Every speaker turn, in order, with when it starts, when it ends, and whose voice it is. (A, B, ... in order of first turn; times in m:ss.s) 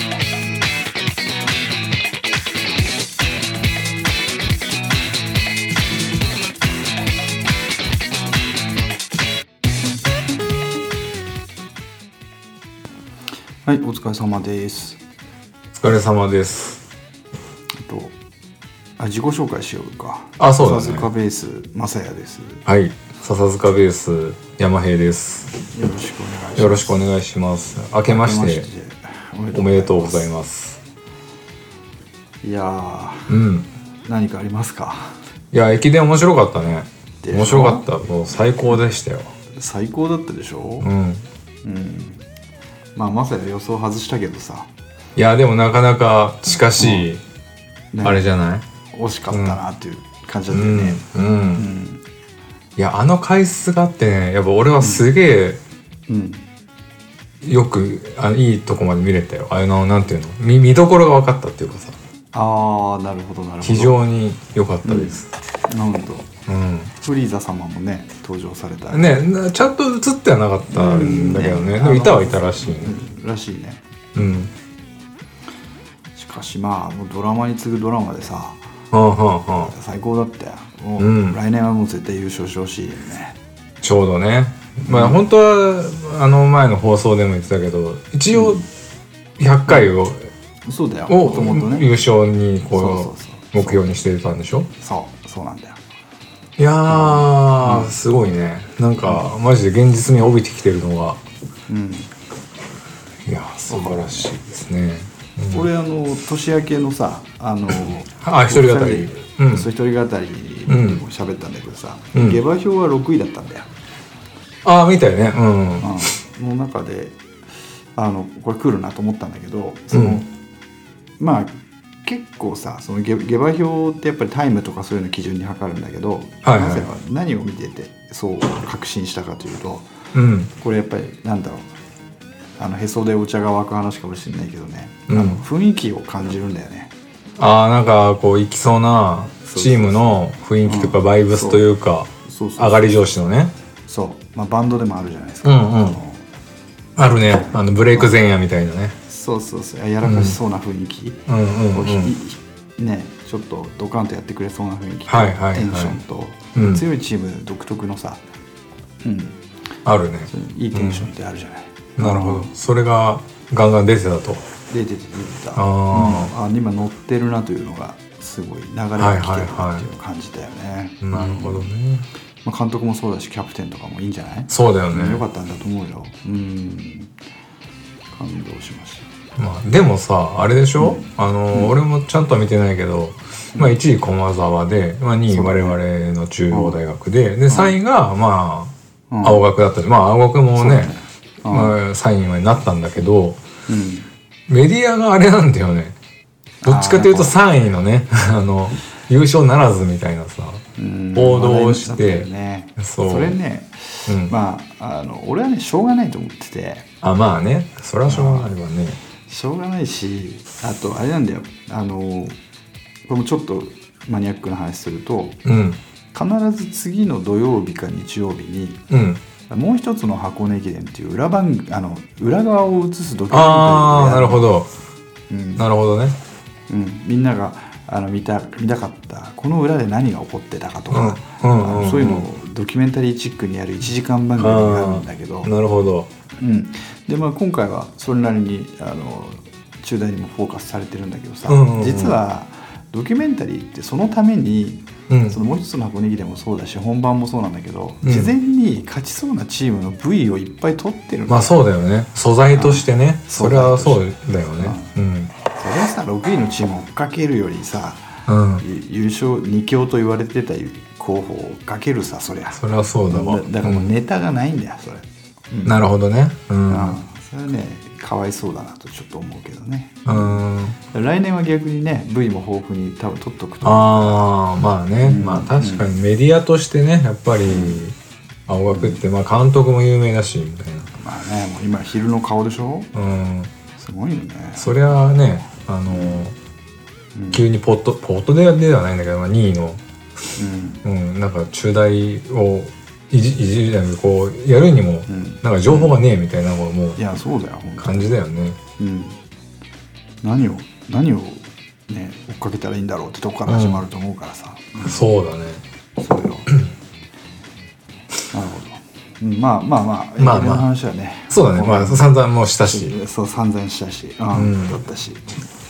0:13.6-0:15.0 A
0:15.8-0:16.8 B
0:17.8-0:18.2 A
0:19.0-0:22.7 A
0:20.4-0:21.1 B
0:22.7-0:25.5 B
0:25.7-0:27.0 A
0:26.6-0:28.7 B
0:28.1-0:30.3 A
0:29.5-0:30.8 B
0:32.4-0:33.4 A
0:33.3-0:33.7 B
0:34.0-0:35.2 A
0:35.5-0:39.3 B
0:37.2-0:37.9 A
0:39.5-0:40.9 A
0:40.8-0:41.2 B
0:41.6-0:42.2 A
0:43.0-0:44.7 A
0:45.2-0:47.2 B
0:46.8-0:47.1 A
0:47.9-0:48.3 A
0:48.0-0:48.7 B
0:48.9-0:51.0 A
0:49.3-0:49.6 B
0:50.5-0:51.6 B
0:51.6-0:52.0 A
0:52.8-0:55.6 B
0:54.8-0:55.1 A
0:56.1-0:56.5 A
0:57.4-1:02.0 B
1:02.3-1:04.0 A
1:03.6-1:05.3 B
1:04.8-1:05.2 A
1:05.7-1:06.3 A
1:06.5-1:06.9 B
1:07.0-1:09.3 A
1:08.9-1:13.0 B
1:10.7-1:13.8 A
1:14.2-1:14.5 B
1:16.2-1:18.6 A
1:18.9-1:19.7 B
1:19.5-1:23.4 A
1:21.0-1:21.4 B
1:23.8-1:28.6 B
1:24.8-1:25.2 A
1:28.3-1:28.6 A
1:29.4-1:30.3 B
1:30.7-1:32.0 A
1:31.1-1:34.7 B
1:32.7-1:34.0 A
1:34.8-1:35.8 A
1:36.6-1:41.2 B
1:36.9-1:38.0 A
1:39.0-1:39.3 A
1:41.7-1:42.1 A
1:43.2-1:45.7 B
1:43.7-1:44.4 A
1:45.5-1:53.7 A
1:48.2-1:49.7 B
1:50.7-1:51.0 B
1:52.1-1:52.4 B
1:54.6-1:56.0 B
1:55.8-1:57.2 A
1:58.0-2:00.3 A
1:59.9-2:00.2 B
2:01.2-2:01.5 A
2:02.0-2:09.9 A
2:06.4-2:06.9 B
2:10.1-2:10.5 B
2:10.6-2:11.7 A
2:12.6-2:16.9 A
2:15.1-2:15.4 B
2:17.4-2:23.5 B
2:19.5-2:21.7 A
2:22.2-2:22.8 A
2:23.9-2:26.2 A
2:25.4-2:26.0 B
2:27.0-2:29.0 B
2:29.1-2:38.2 A
2:30.0-2:30.4 B
2:31.3-2:32.2 B
2:35.1-2:36.0 B
2:36.6-2:36.8 B
2:39.0-2:39.4 A
2:39.8-2:41.1 B
2:40.3-2:42.5 A
2:42.0-2:44.5 B
2:44.7-2:51.7 A
2:45.6-2:46.3 B
2:49.0-2:49.9 B
2:51.0-2:52.1 B
2:52.4-2:57.1 A
2:54.5-2:55.2 B
2:58.1-2:59.1 A
2:59.4-3:10.9 B
3:00.8-3:01.8 A
3:05.3-3:05.8 A
3:06.5-3:06.8 A
3:07.5-3:07.8 A
3:09.1-3:09.4 A
3:10.6-3:11.8 A
3:11.5-3:13.4 B
3:13.7-3:14.1 A
3:14.5-3:16.0 B
3:16.6-3:17.4 A
3:16.6-3:20.6 B
3:20.8-3:26.9 A
3:21.2-3:23.4 B
3:24.1-3:24.3 B
3:27.0-3:29.0 B
3:28.1-3:28.5 A
3:29.3-3:32.4 A
3:33.1-3:35.4 A
3:35.4-3:35.8 B
3:36.1-3:38.8 A
3:38.9-3:39.2 B
3:39.5-3:44.5 A
3:43.3-3:44.7 B
3:45.3-3:45.6 A
3:45.6-3:46.2 B
3:46.7-3:55.5 A
3:50.9-3:52.3 B
3:54.4-3:56.1 B
3:56.4-4:11.6 A
4:01.5-4:02.2 B
4:05.1-4:05.4 B
4:08.0-4:08.3 B
4:11.3-4:15.3 B
4:12.5-4:14.1 A
4:14.6-4:14.9 A
4:15.5-4:18.1 A
4:18.3-4:18.6 B
4:18.6-4:25.9 A
4:22.6-4:23.9 B
4:25.6-4:27.0 B
4:26.7-4:34.3 A
4:30.1-4:30.8 B
4:33.6-4:38.0 B
4:35.0-4:36.0 A
4:37.5-4:37.8 A
4:38.5-4:40.9 B
4:38.7-4:39.0 A
4:41.0-4:42.9 A
4:42.9-4:43.5 B
4:43.8-4:44.7 A
4:44.6-4:46.4 B
4:45.9-4:46.2 A
4:47.2-4:47.5 A
4:47.3-4:49.8 B
4:50.4-4:50.8 A
4:50.8-4:57.0 B
4:55.1-4:56.0 A
4:57.0-4:58.1 A
4:57.8-4:58.6 B
4:58.8-4:59.2 A
5:00.2-5:05.1 A
5:03.5-5:03.8 B
5:04.8-5:05.6 B
5:06.0-5:06.5 A
5:08.3-5:12.1 A
5:10.2-5:10.7 B
5:11.3-5:13.0 B
5:12.6-5:15.4 A
5:14.3-5:14.8 B